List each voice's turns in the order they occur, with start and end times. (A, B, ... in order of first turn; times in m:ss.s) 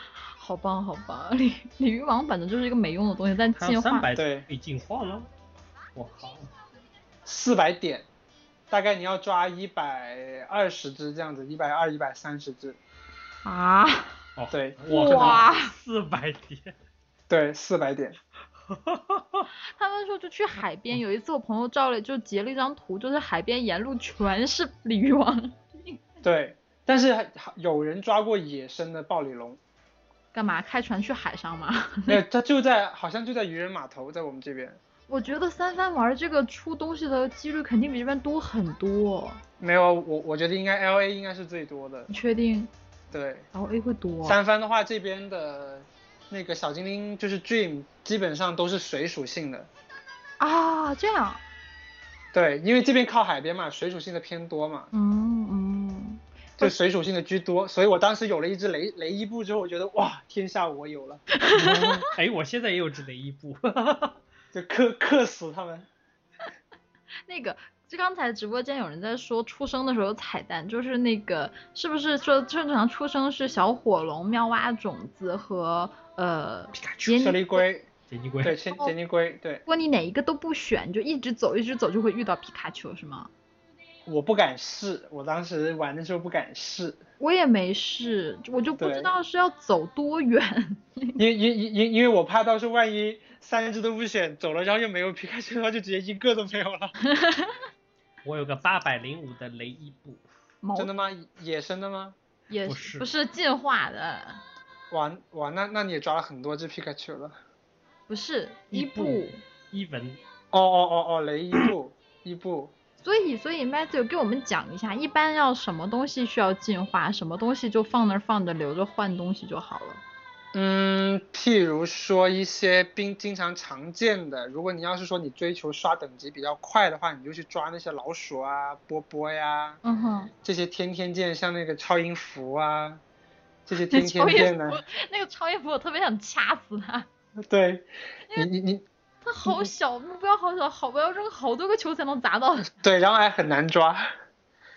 0:00.4-0:04.1 A
0:03.6-0:05.3 B
0:04.1-0:04.4 C
0:05.9-0:06.5 B
0:07.2-0:08.1 C
0:08.7-0:12.8 C
0:13.4-0:14.2 A
0:14.4-0:16.7 B
0:14.5-0:15.4 C
0:14.9-0:15.7 A
0:17.3-0:18.2 C
0:18.7-0:19.5 B
0:19.7-0:26.0 A
0:26.2-0:29.6 C
0:30.3-0:32.2 A
0:32.1-0:34.8 C
0:35.1-0:39.4 A
0:39.6-0:42.1 C
0:42.1-0:42.7 A
0:43.1-0:43.5 C
0:43.5-0:44.4 A
0:44.2-0:49.7 C
0:50.4-0:51.4 A
0:52.3-0:54.9 C
0:54.9-0:56.7 A
0:56.6-1:01.2 C
1:01.4-1:02.1 A
1:01.6-1:04.2 B
1:04.5-1:05.9 C
1:07.3-1:17.4 A
1:16.7-1:17.1 B
1:17.1-1:17.9 C
1:18.1-1:18.6 B
1:18.4-1:19.6 C
1:19.6-1:23.3 A
1:24.0-1:27.0 C
1:27.2-1:31.2 A
1:28.8-1:29.1 C
1:31.2-1:36.9 C
1:37.0-1:37.6 A
1:38.2-1:40.2 B
1:40.6-1:40.9 A
1:40.8-1:42.2 C
1:42.5-1:44.4 A
1:42.7-1:43.1 B
1:44.9-1:47.4 C
1:48.1-1:49.4 A
1:48.7-1:50.2 B
1:50.5-1:52.7 C
1:53.0-2:00.0 A
2:00.5-2:09.8 C
2:09.8-2:10.3 A
2:10.4-2:13.0 C
2:13.6-2:14.8 C
2:13.9-2:17.1 A
2:17.4-2:18.8 C
2:19.2-2:22.7 A
2:22.7-2:24.1 C